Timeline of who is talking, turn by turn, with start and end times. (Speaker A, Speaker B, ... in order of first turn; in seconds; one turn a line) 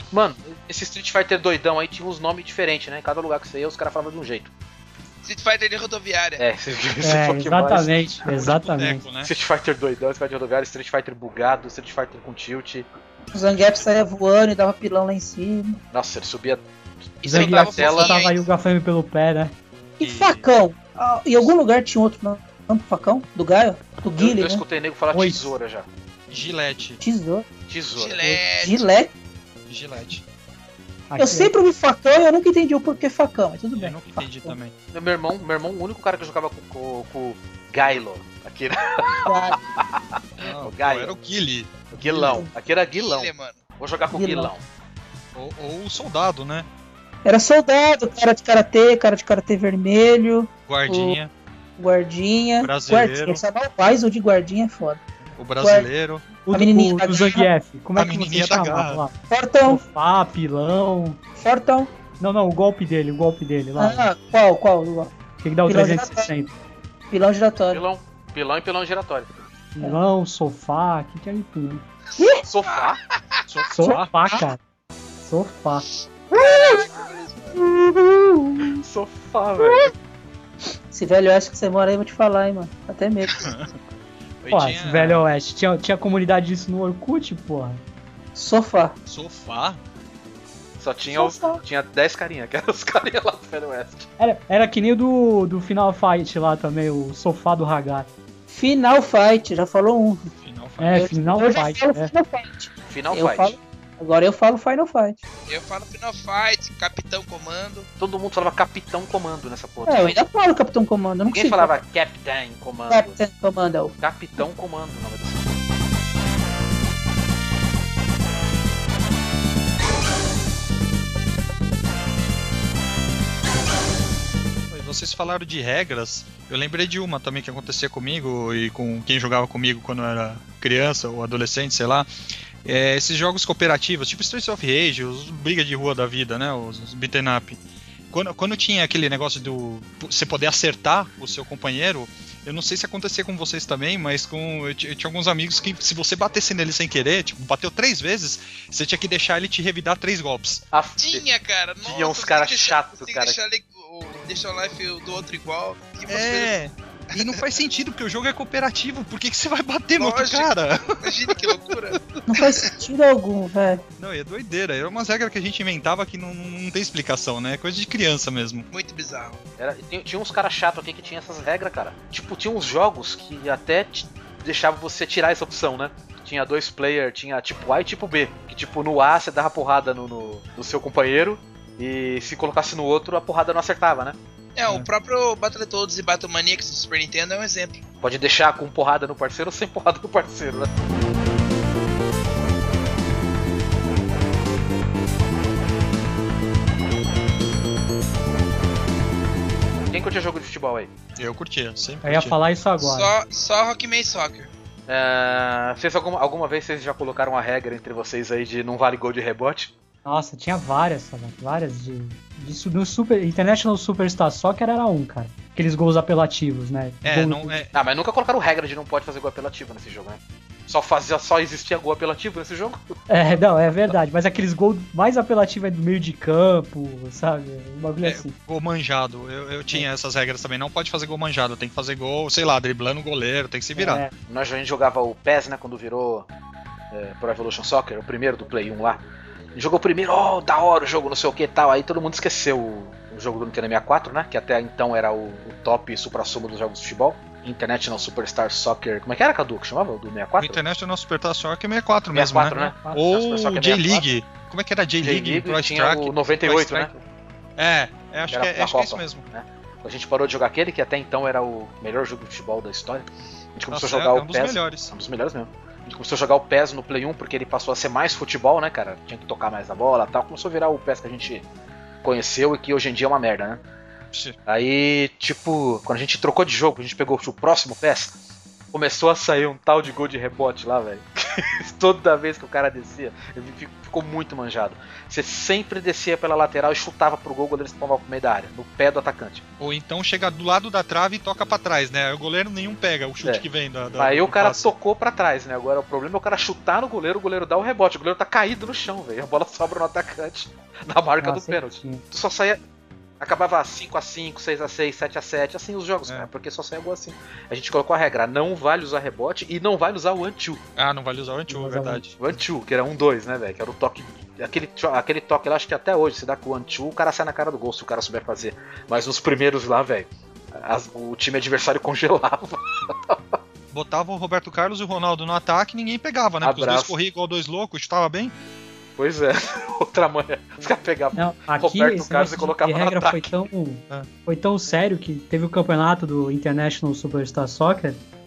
Speaker A: 0.1-4.5
Speaker B: 5.2-6.4
Speaker A: 6.4-8.0
Speaker C: 7.0-9.1
Speaker D: 8.2-9.3
Speaker A: 9.2-12.9
Speaker E: 13.3-15.8
Speaker A: 15.9-16.7
Speaker A: 17.2-18.2
Speaker B: 17.2-18.5
Speaker C: 17.2-19.5
Speaker E: 20.0-24.6
Speaker D: 20.0-20.4
Speaker A: 24.2-25.9
Speaker C: 25.1-25.5
Speaker D: 26.3-27.0
Speaker E: 27.0-27.4
Speaker A: 27.7-28.3
Speaker B: 27.9-28.9
Speaker E: 28.2-29.1
Speaker D: 29.7-30.2
Speaker C: 31.1-31.5
Speaker E: 31.2-34.5
Speaker D: 33.8-34.7
Speaker A: 34.9-41.1
Speaker E: 39.2-39.6
Speaker D: 40.4-41.9
Speaker A: 41.9-44.6
Speaker E: 42.1-42.5
Speaker B: 42.9-43.6
Speaker E: 44.1-44.5
Speaker D: 45.4-46.7
Speaker E: 47.2-51.2
Speaker D: 50.7-51.3
Speaker E: 51.8-55.0
Speaker D: 52.6-53.4
Speaker D: 55.4-56.3
Speaker E: 55.6-55.9
Speaker C: 56.5-61.2
Speaker E: 56.5-57.5
Speaker D: 58.0-59.0
Speaker E: 59.3-59.8
Speaker E: 61.4-61.9
Speaker C: 62.2-64.1
Speaker E: 63.8-65.1
Speaker C: 65.4-66.5
Speaker E: 65.7-66.3
Speaker E: 67.1-67.8
Speaker A: 67.7-69.3
Speaker C: 69.7-71.8
Speaker E: 72.2-72.4
Speaker A: 72.4-73.0
Speaker D: 73.5-74.2
Speaker C: 73.7-74.6
Speaker C: 75.2-75.9
Speaker E: 76.3-76.9
Speaker B: 76.3-77.6
Speaker E: 77.5-78.7
Speaker A: 78.8-79.9
Speaker E: 80.9-83.5
Speaker D: 83.4-83.7
Speaker D: 84.4-85.2
Speaker C: 84.5-87.8
Speaker E: 88.3-88.9
Speaker D: 89.1-89.8
Speaker A: 90.8-94.1
Speaker C: 91.2-91.6
Speaker C: 94.2-98.1
Speaker E: 98.5-100.3
Speaker D: 100.4-101.2
Speaker C: 100.8-102.1
Speaker E: 100.9-105.2
Speaker A: 102.9-103.6
Speaker B: 105.5-107.9
Speaker A: 108.0-110.2
Speaker E: 109.9-111.8
Speaker A: 111.3-113.2
Speaker E: 112.9-113.9
Speaker A: 114.0-115.6
Speaker D: 124.7-132.1
Speaker D: 132.6-150.6
Speaker A: 150.7-151.2
Speaker B: 151.0-156.6
Speaker A: 151.8-153.4
Speaker D: 156.1-161.5
Speaker B: 159.9-162.7
Speaker E: 162.3-163.8
Speaker D: 164.0-168.7
Speaker B: 168.7-169.4
Speaker A: 169.6-184.2
Speaker B: 184.6-187.8
Speaker A: 188.0-190.7
Speaker A: 199.9-200.9
Speaker D: 201.2-202.4
Speaker C: 202.0-203.1
Speaker B: 202.8-204.5
Speaker A: 204.9-209.7
Speaker C: 210.1-217.7
Speaker D: 217.0-217.7
Speaker A: 217.7-222.8
Speaker C: 223.1-228.4
Speaker D: 228.0-234.0
Speaker C: 233.8-234.1
Speaker A: 234.3-236.3
Speaker A: 236.9-239.0
Speaker A: 239.6-250.6
Speaker D: 250.4-256.9
Speaker A: 252.1-254.1
Speaker A: 255.0-257.0
Speaker D: 257.6-259.3
Speaker A: 258.3-271.4
Speaker D: 263.7-264.9
Speaker A: 272.0-273.6
Speaker A: 274.5-278.2
Speaker A: 278.7-289.4
Speaker D: 289.6-294.7
Speaker A: 294.0-302.6
Speaker C: 301.2-302.0
Speaker A: 303.2-310.6
Speaker D: 310.8-312.1
Speaker C: 311.5-312.1
Speaker A: 312.2-323.2
Speaker D: 323.7-328.3
Speaker A: 326.4-327.0
Speaker A: 329.0-333.4
Speaker C: 331.1-338.0